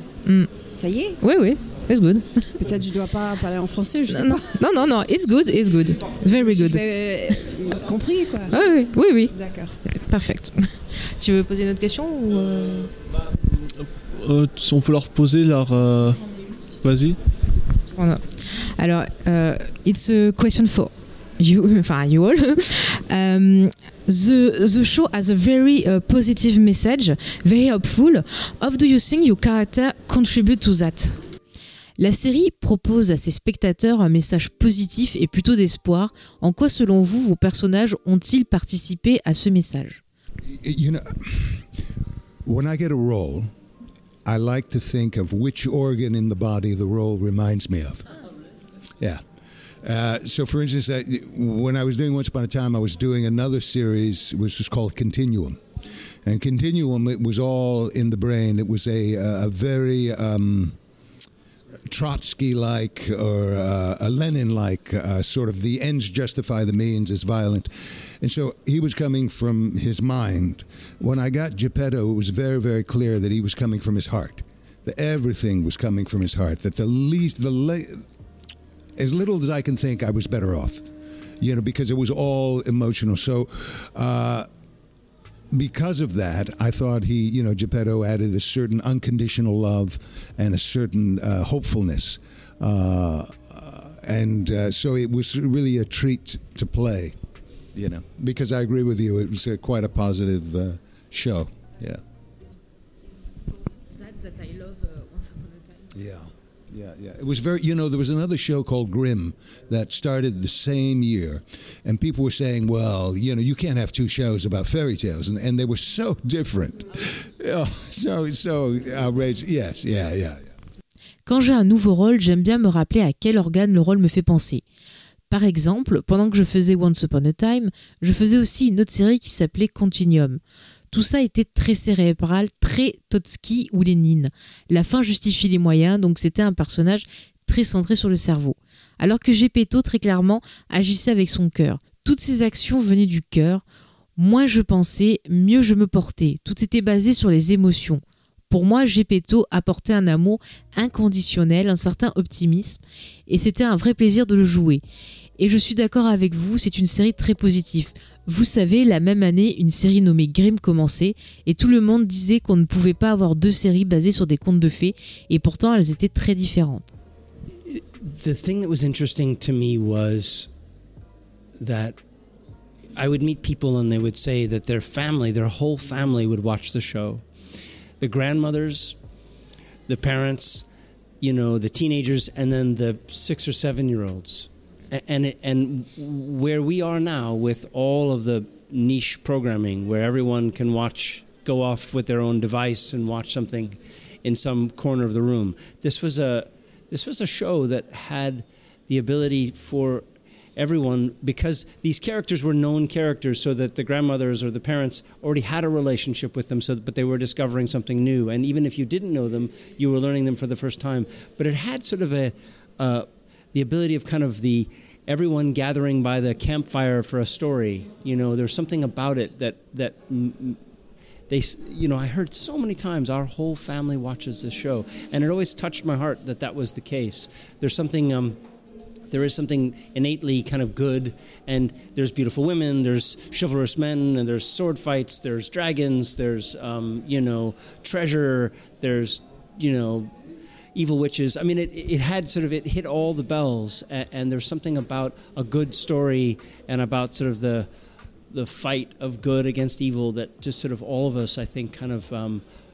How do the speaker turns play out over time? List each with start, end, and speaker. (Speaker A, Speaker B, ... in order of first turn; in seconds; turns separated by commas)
Speaker A: 0.3-0.5, Speaker B: 0.7-1.2, Speaker A: 1.2-2.5, Speaker B: 2.6-4.5, Speaker A: 4.1-6.8, Speaker B: 6.3-8.6, Speaker A: 8.5-12.9, Speaker B: 9.3-9.8, Speaker C: 13.6-16.3, Speaker C: 16.8-17.2, Speaker A: 17.9-18.2, Speaker A: 18.8-31.2, Speaker A: 32.0-40.0, Speaker D: 40.6-41.7, Speaker D: 42.5-43.5, Speaker D: 44.2-48.1, Speaker D: 49.8-55.6, Speaker D: 56.2-60.8, Speaker D: 61.9-78.0, Speaker D: 79.0-80.8, Speaker D: 81.4-84.5, Speaker D: 85.5-97.2, Speaker D: 97.7-102.0, Speaker D: 105.9-120.5, Speaker A: 121.3-124.6, Speaker A: 125.3-130.4, Speaker A: 130.9-143.6, Speaker A: 144.2-154.8, Speaker A: 155.4-166.9, Speaker E: 167.7-170.5, Speaker E: 171.6-172.0, Speaker E: 172.9-177.2, Speaker E: 178.0-179.0, Speaker E: 179.9-180.7, Speaker E: 181.2-200.1, Speaker E: 200.6-220.6, Speaker E: 221.3-228.4, Speaker E: 229.1-240.1, Speaker E: 240.7-247.7, Speaker E: 248.3-252.4